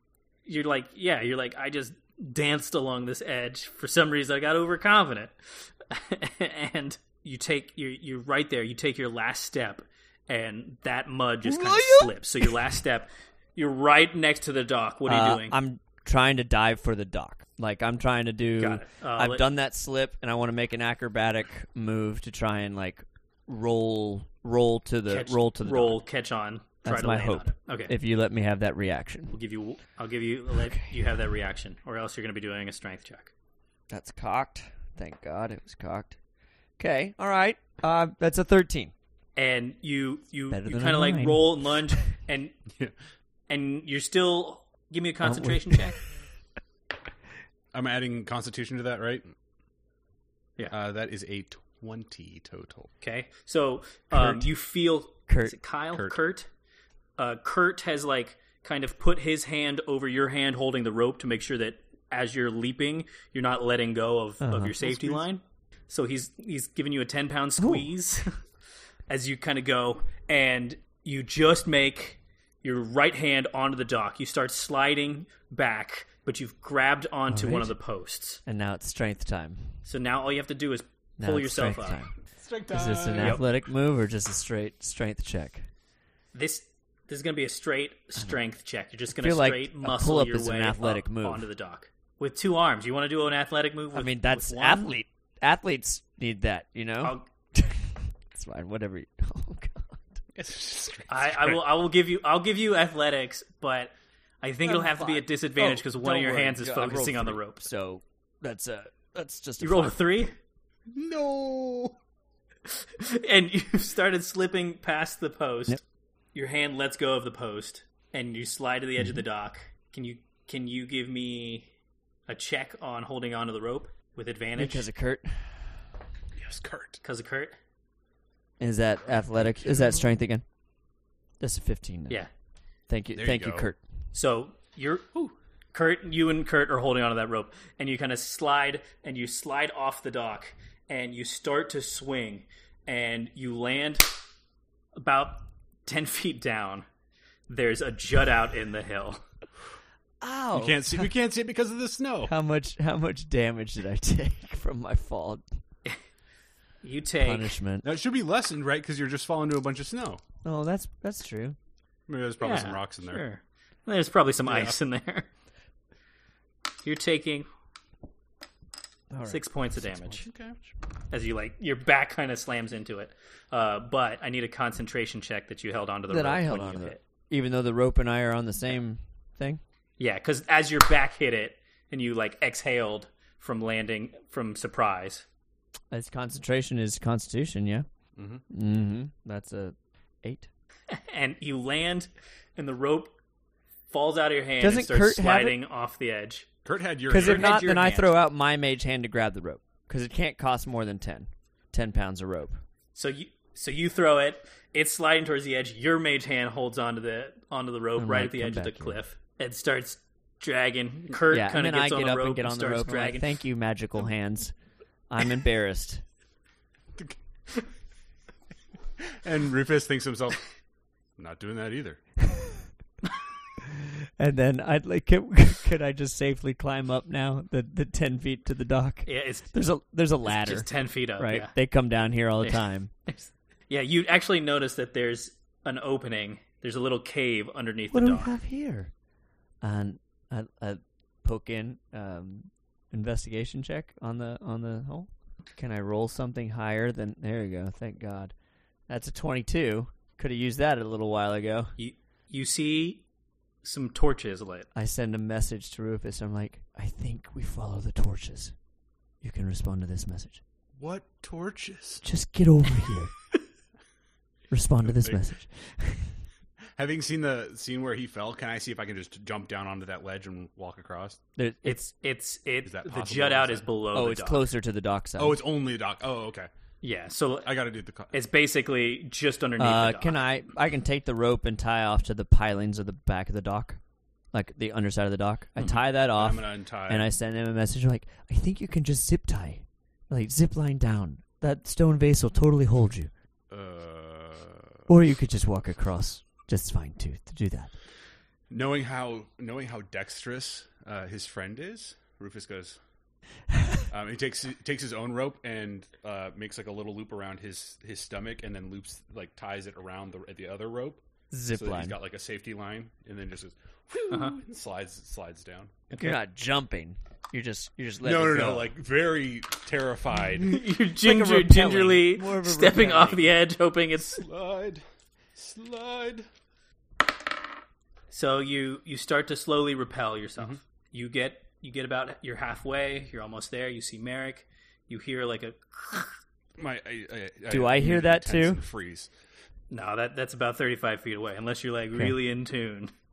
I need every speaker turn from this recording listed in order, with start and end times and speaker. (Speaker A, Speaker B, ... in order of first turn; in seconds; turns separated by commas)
Speaker A: 0.5-15.6, Speaker B: 11.6-12.0, Speaker C: 11.8-12.1, Speaker B: 15.1-26.0, Speaker A: 18.6-19.5, Speaker A: 25.1-27.9, Speaker B: 26.8-29.4, Speaker A: 29.3-33.3, Speaker B: 30.5-31.0, Speaker B: 33.9-36.2, Speaker B: 36.8-38.9, Speaker A: 39.4-42.5, Speaker B: 40.5-42.0, Speaker A: 43.5-46.0, Speaker B: 45.2-46.0, Speaker C: 47.7-49.3, Speaker C: 50.7-52.9, Speaker A: 53.0-56.5, Speaker B: 54.1-54.5, Speaker B: 55.3-55.5, Speaker A: 57.2-68.4, Speaker B: 64.4-65.0, Speaker B: 67.6-67.9, Speaker A: 69.1-78.4, Speaker B: 77.3-77.8, Speaker B: 78.4-79.8, Speaker A: 79.8-82.0, Speaker B: 81.2-82.1, Speaker C: 82.4-83.4, Speaker B: 82.7-85.7, Speaker A: 83.2-83.5, Speaker A: 86.3-94.9, Speaker B: 89.1-91.5, Speaker B: 93.9-100.2, Speaker A: 97.0-97.2, Speaker C: 100.3-101.6, Speaker A: 101.1-107.6, Speaker B: 104.6-110.2, Speaker A: 109.6-110.3, Speaker C: 110.9-111.9, Speaker A: 112.8-115.8, Speaker A: 116.3-121.7, Speaker A: 122.3-124.9, Speaker B: 124.5-125.7, Speaker C: 126.4-127.0, Speaker A: 127.0-127.5, Speaker B: 128.6-130.4, Speaker C: 129.5-130.0, Speaker B: 131.4-132.2, Speaker B: 132.9-133.8, Speaker C: 133.1-133.7, Speaker A: 134.1-135.1, Speaker A: 135.7-144.1, Speaker A: 144.9-146.8, Speaker A: 147.5-149.2, Speaker B: 150.2-151.1, Speaker C: 150.5-152.3, Speaker B: 152.2-155.4, Speaker A: 156.8-157.5, Speaker B: 157.2-157.8, Speaker C: 157.8-160.2, Speaker B: 160.4-161.6, Speaker C: 162.1-163.2, Speaker A: 162.4-165.3, Speaker C: 164.4-164.8, Speaker A: 166.8-167.5, Speaker B: 169.1-170.1, Speaker A: 169.2-170.3, Speaker C: 170.2-170.6, Speaker A: 171.1-177.0, Speaker B: 176.1-179.6, Speaker A: 180.0-185.2, Speaker B: 185.9-187.8, Speaker C: 188.2-188.4, Speaker B: 188.5-190.5, Speaker A: 190.9-193.1, Speaker A: 193.9-196.5, Speaker B: 194.6-195.6, Speaker C: 196.6-197.7, Speaker B: 197.1-202.6, Speaker A: 197.1-198.2, Speaker A: 202.9-213.3, Speaker B: 208.0-209.0, Speaker B: 211.3-214.5, Speaker B: 215.1-216.0, Speaker C: 219.1-220.5, Speaker C: 221.2-222.0, Speaker B: 222.3-222.6, Speaker B: 223.7-232.9, Speaker A: 229.0-229.6, Speaker A: 230.2-231.5, Speaker A: 232.4-238.3, Speaker B: 237.9-238.9, Speaker B: 239.6-248.3, Speaker B: 248.9-251.8, Speaker A: 251.8-253.0, Speaker A: 253.6-254.7, Speaker B: 254.7-258.6, Speaker B: 259.2-260.4, Speaker C: 260.8-262.0, Speaker B: 262.0-263.1, Speaker B: 264.5-266.2, Speaker C: 264.8-265.2, Speaker C: 266.8-271.2, Speaker B: 271.4-271.9, Speaker A: 271.6-274.4, Speaker C: 272.6-273.7, Speaker B: 273.9-275.4, Speaker C: 275.2-276.5, Speaker A: 276.8-277.5, Speaker C: 277.4-278.1, Speaker A: 278.1-280.3, Speaker B: 279.6-283.8, Speaker B: 284.3-293.1, Speaker C: 286.1-287.1, Speaker C: 293.5-294.8, Speaker B: 294.9-297.7, Speaker C: 298.5-302.8, Speaker C: 303.9-315.9, Speaker B: 311.3-312.0, Speaker A: 314.1-314.4, Speaker A: 315.9-316.2, Speaker B: 316.0-318.7, Speaker C: 318.0-320.6, Speaker B: 320.4-323.3, Speaker A: 320.4-324.2, Speaker C: 324.1-324.8, Speaker C: 325.4-326.2, Speaker A: 328.1-336.2, Speaker C: 336.6-339.1, Speaker B: 337.5-338.6, Speaker A: 339.7-342.9